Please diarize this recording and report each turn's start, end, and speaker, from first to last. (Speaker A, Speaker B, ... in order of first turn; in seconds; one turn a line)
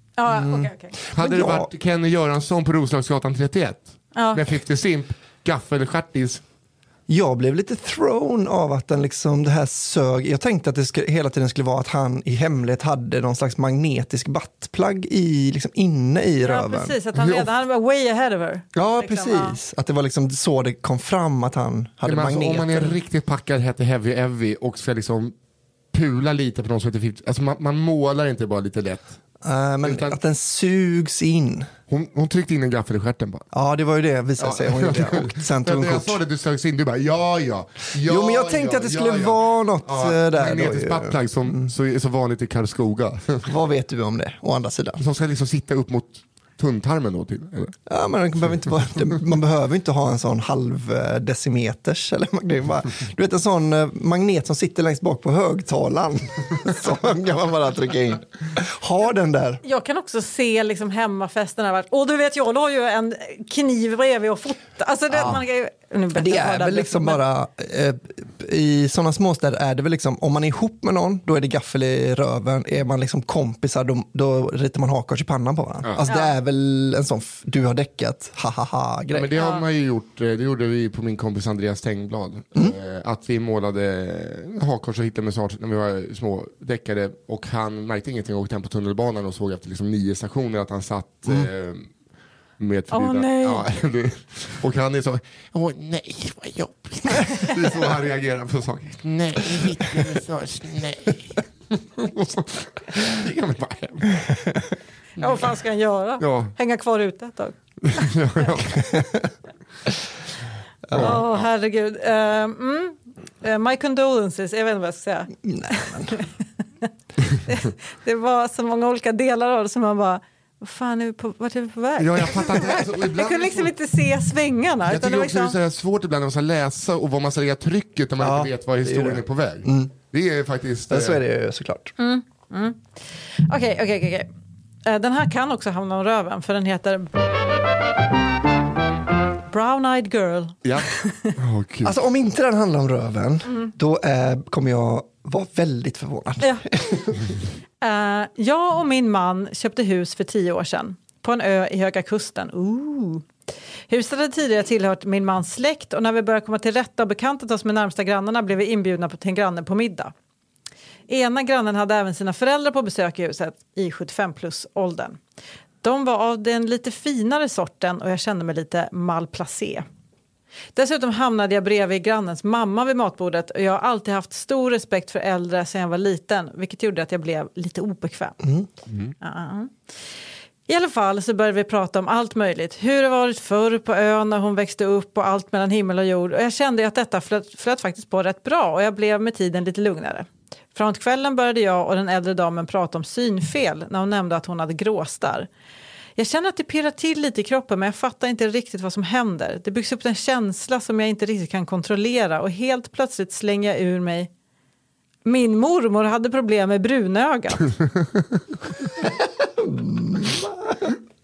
Speaker A: 0.2-1.0
Speaker B: 0.3-1.7
Speaker C: 1.1-6.4
Speaker A: 4.2-4.4
Speaker B: 7.1-17.0
Speaker A: 16.4-19.6
Speaker C: 17.1-17.5
Speaker B: 18.8-23.0
Speaker C: 22.1-25.3
Speaker C: 25.9-29.2
Speaker B: 29.4-31.7
Speaker C: 29.8-30.2
Speaker C: 31.9-33.4
Speaker B: 33.5-36.2
Speaker C: 34.4-43.5
Speaker B: 38.0-41.7
Speaker B: 43.5-45.0
Speaker C: 45.0-47.7
Speaker B: 47.9-59.6
Speaker A: 59.6-67.2
Speaker B: 65.1-65.4
Speaker B: 66.2-79.3
Speaker A: 76.0-76.3
Speaker C: 79.1-91.9
Speaker A: 79.3-79.6
Speaker C: 92.6-104.4
Speaker A: 92.9-93.7
Speaker A: 105.2-108.1
Speaker C: 106.2-106.5
Speaker C: 107.8-109.0
Speaker B: 108.9-109.2
Speaker B: 110.9-111.2
Speaker C: 110.9-111.4
Speaker A: 110.9-116.3
Speaker B: 115.4-116.2
Speaker A: 117.5-125.6
Speaker C: 122.0-123.7
Speaker C: 124.9-131.2
Speaker B: 128.2-129.9
Speaker B: 130.9-131.9
Speaker A: 132.0-132.8
Speaker A: 133.4-134.3
Speaker A: 134.8-137.1
Speaker A: 139.5-141.3
Speaker C: 140.7-142.0
Speaker B: 141.8-147.3
Speaker A: 147.8-153.3
Speaker A: 153.9-160.1
Speaker A: 161.1-165.2
Speaker A: 165.8-169.8
Speaker A: 170.8-178.5
Speaker A: 179.2-179.7
Speaker A: 180.7-195.5
Speaker A: 196.2-204.3
Speaker A: 205.2-207.7
Speaker B: 209.2-210.9